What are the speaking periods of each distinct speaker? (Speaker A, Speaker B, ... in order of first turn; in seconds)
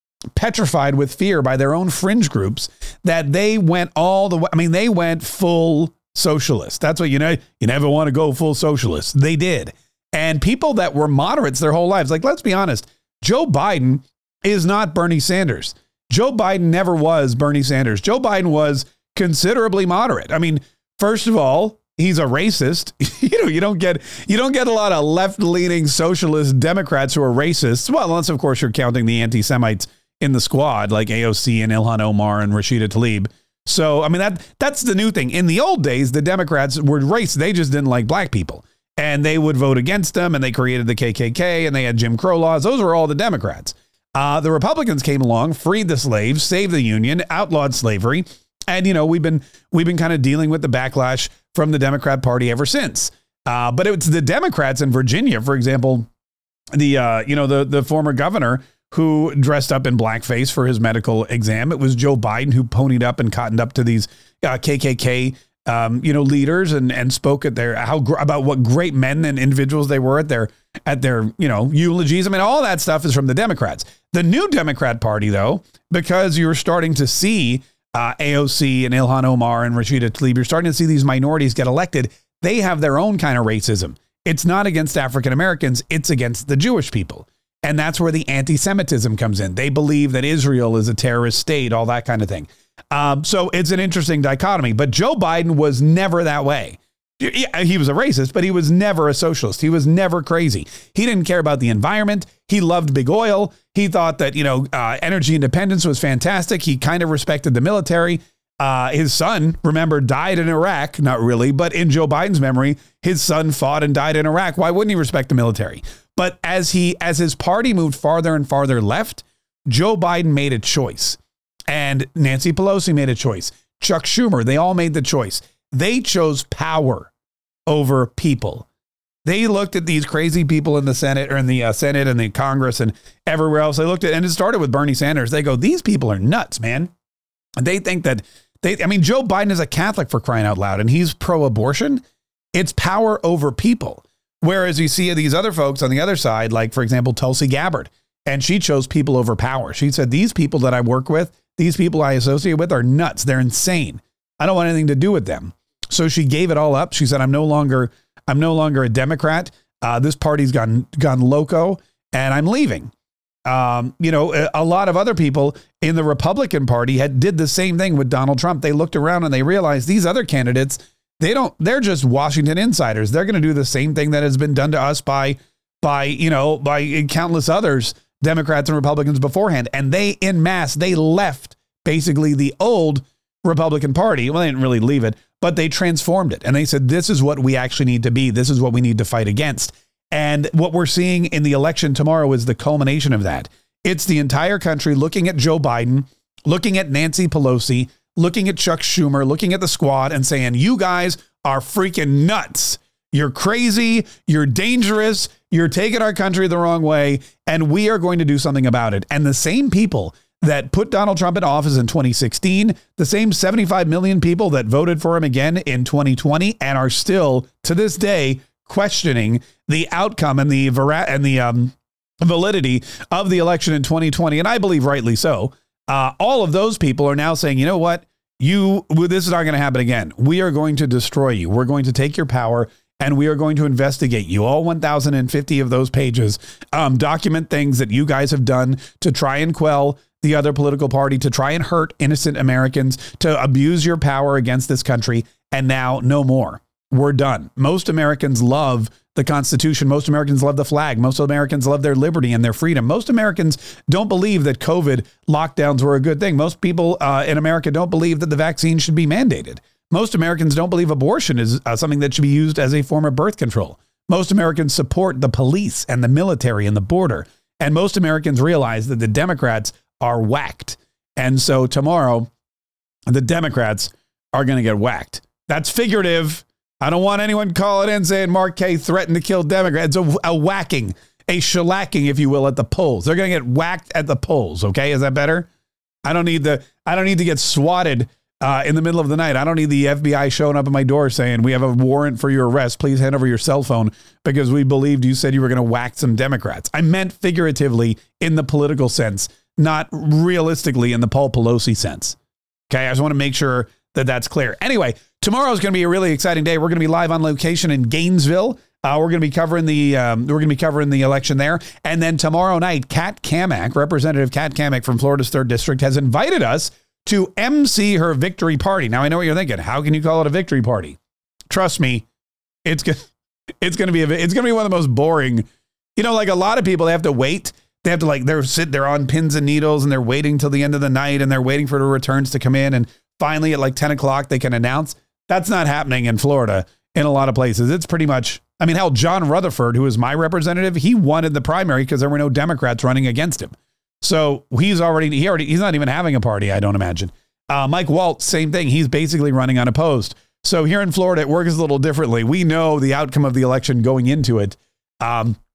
Speaker A: 0.4-56.1, 56.7-127.1, 127.7-128.7, 129.2-136.9, 137.6-142.0, 142.5-162.9, 163.5-272.3, 273.1-285.5, 286.1-302.2, 302.7-321.0, 321.5-322.1, 322.6-323.1, 323.6-355.4